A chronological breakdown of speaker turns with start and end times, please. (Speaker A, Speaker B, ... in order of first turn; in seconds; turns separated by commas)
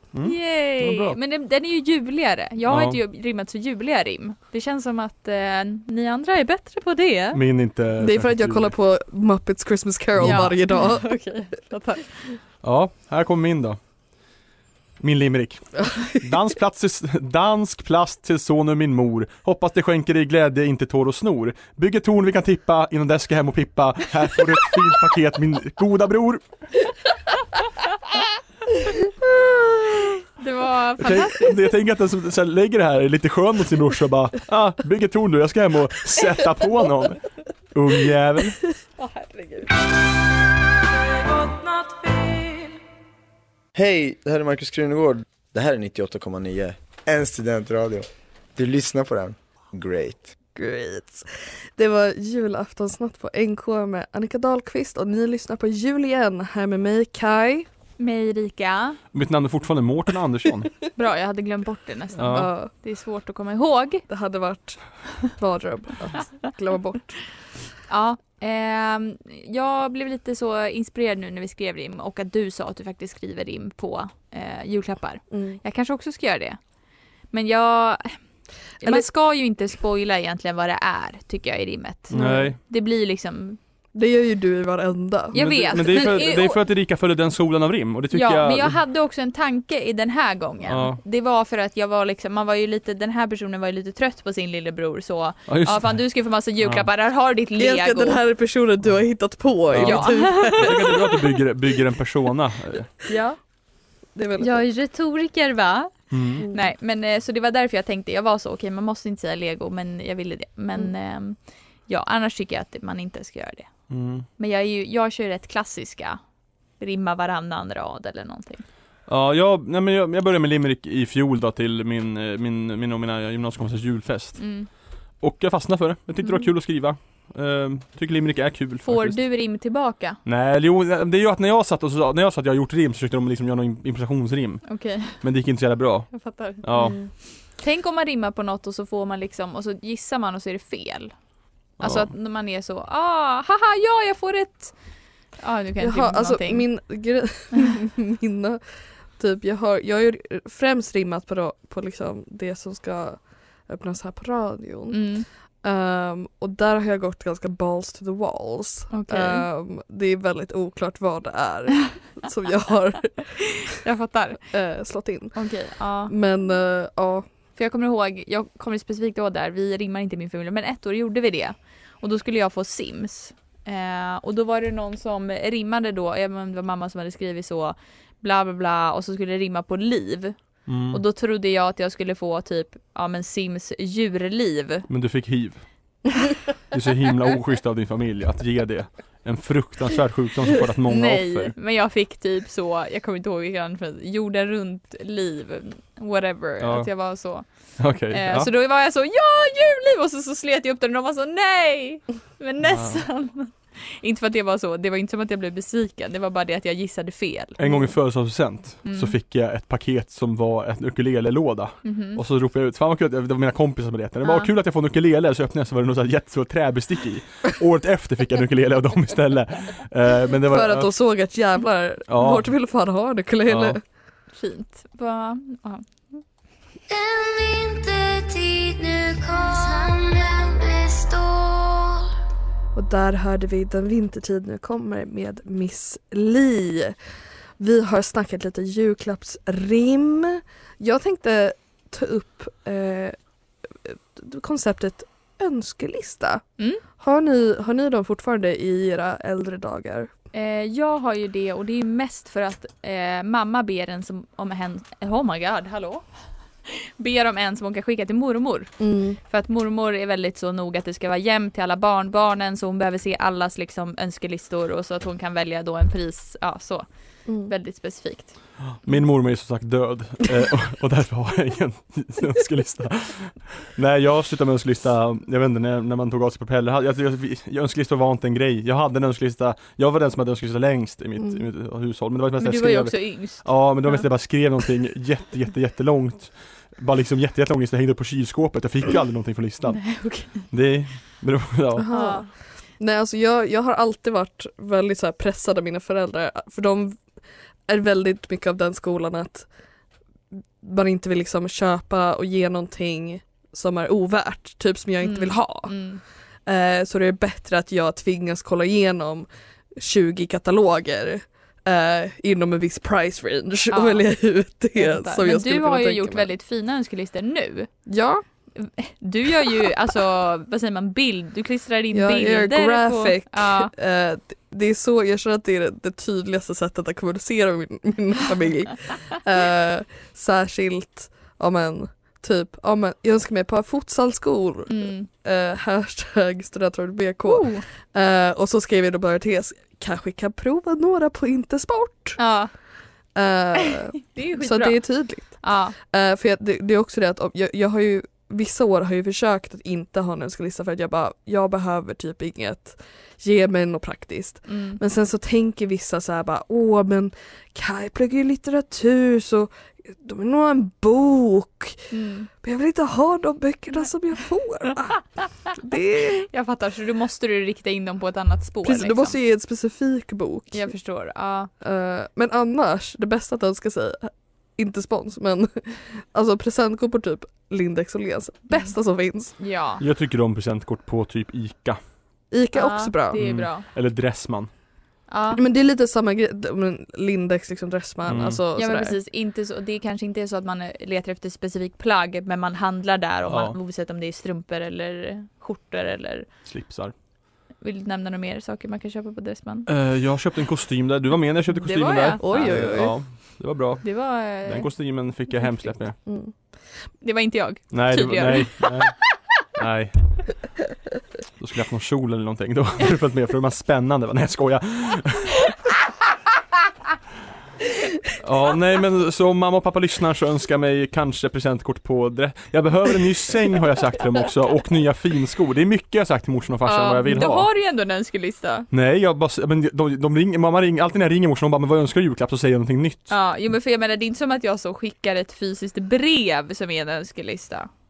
Speaker A: 0.1-1.2, Speaker B: 0.2-7.4, Speaker A: 2.7-3.0, Speaker A: 7.3-8.7, Speaker C: 8.0-11.1, Speaker A: 10.2-10.5, Speaker B: 10.2-12.3, Speaker A: 12.6-13.8, Speaker A: 15.0-26.4, Speaker B: 30.4-31.6, Speaker A: 31.0-38.6, Speaker B: 39.0-39.8, Speaker D: 43.8-48.0, Speaker D: 48.6-50.2, Speaker C: 50.5-57.7, Speaker B: 58.0-59.0, Speaker A: 59.1-60.8, Speaker B: 61.0-64.0, Speaker A: 62.2-62.5, Speaker C: 62.3-62.7, Speaker C: 64.1-67.2, Speaker B: 67.9-76.6, Speaker C: 75.3-75.6, Speaker B: 77.3-78.1, Speaker B: 78.8-83.6, Speaker A: 82.1-82.6, Speaker C: 82.1-82.5, Speaker C: 84.0-86.0, Speaker B: 85.3-86.6, Speaker A: 85.3-88.8, Speaker B: 88.1-98.2, Speaker A: 90.7-91.0, Speaker A: 95.5-96.1, Speaker A: 96.6-96.9, Speaker C: 97.6-101.0, Speaker A: 99.7-102.9, Speaker B: 99.8-100.7, Speaker B: 103.1-103.4, Speaker C: 104.2-104.6, Speaker B: 104.4-113.7, Speaker A: 106.1-106.5, Speaker C: 106.4-106.7, Speaker A: 113.9-114.3, Speaker B: 114.4-116.2, Speaker B: 116.8-118.7, Speaker A: 119.1-124.6, Speaker B: 124.4-124.7, Speaker A: 125.2-129.2, Speaker B: 128.8-130.2, Speaker A: 130.2-137.0, Speaker B: 134.7-135.2, Speaker B: 136.1-136.7, Speaker C: 136.8-137.1, Speaker B: 137.5-141.1, Speaker B: 141.8-144.7, Speaker A: 141.8-142.1, Speaker B: 145.4-146.7, Speaker C: 145.8-148.6, Speaker C: 149.2-155.1, Speaker B: 154.9-155.3, Speaker C: 155.6-163.3, Speaker B: 158.9-159.5, Speaker B: 163.6-164.4, Speaker C: 164.5-165.4, Speaker B: 165.3-166.1, Speaker C: 166.1-167.3, Speaker B: 167.6-184.9, Speaker A: 180.7-181.0, Speaker A: 184.9-185.7, Speaker A: 186.7-191.5, Speaker B: 190.9-207.6, Speaker A: 196.6-196.9, Speaker A: 197.8-198.5, Speaker A: 202.6-203.0, Speaker A: 207.6-220.9, Speaker B: 208.8-209.1, Speaker B: 211.8-212.2, Speaker B: 214.2-214.5, Speaker C: 220.5-223.8, Speaker A: 222.1-222.5, Speaker A: 223.5-223.8, Speaker B: 224.3-225.8, Speaker E: 226.9-231.8, Speaker C: 232.7-237.0, Speaker C: 237.6-243.2, Speaker C: 243.8-246.4, Speaker C: 247.0-250.1, Speaker B: 250.3-256.0, Speaker B: 256.7-258.7, Speaker C: 258.8-259.2, Speaker B: 259.3-266.9, Speaker C: 267.3-267.5, Speaker B: 267.4-268.3, Speaker A: 268.6-291.9, Speaker B: 282.4-284.1, Speaker B: 289.8-290.4, Speaker C: 291.8-297.0, Speaker B: 291.9-292.3, Speaker C: 297.7-299.5, Speaker C: 300.6-305.8, Speaker B: 305.0-306.0, Speaker C: 306.5-316.3, Speaker B: 313.7-314.1, Speaker B: 314.8-317.7, Speaker C: 317.9-318.2, Speaker B: 318.6-323.7, Speaker C: 321.9-342.2, Speaker B: 334.7-335.1, Speaker B: 337.3-337.6, Speaker B: 342.2-342.5, Speaker C: 343.1-361.8, Speaker B: 344.1-345.8, Speaker B: 354.5-354.8, Speaker B: 361.9-362.3, Speaker C: 362.4-366.3, Speaker B: 366.2-369.2, Speaker C: 368.6-370.7, Speaker B: 370.5-371.5, Speaker C: 371.6-379.3, Speaker B: 379.4-379.8, Speaker A: 379.8-381.8, Speaker C: 382.3-383.2, Speaker B: 382.5-383.7, Speaker A: 383.2-384.5, Speaker B: 385.1-385.4, Speaker C: 385.3-389.0, Speaker A: 388.1-388.4, Speaker B: 388.6-396.3, Speaker A: 393.2-393.6, Speaker A: 396.5-396.9, Speaker B: 397.6-399.7, Speaker A: 399.7-406.0, Speaker B: 401.5-402.8, Speaker C: 402.2-403.0, Speaker B: 403.8-404.7, Speaker C: 406.1-406.3, Speaker B: 407.0-408.7, Speaker A: 407.7-409.0, Speaker A: 409.6-410.4, Speaker A: 411.4-415.5, Speaker A: 418.2-427.5, Speaker B: 426.6-428.7, Speaker A: 428.7-433.1, Speaker B: 433.1-437.7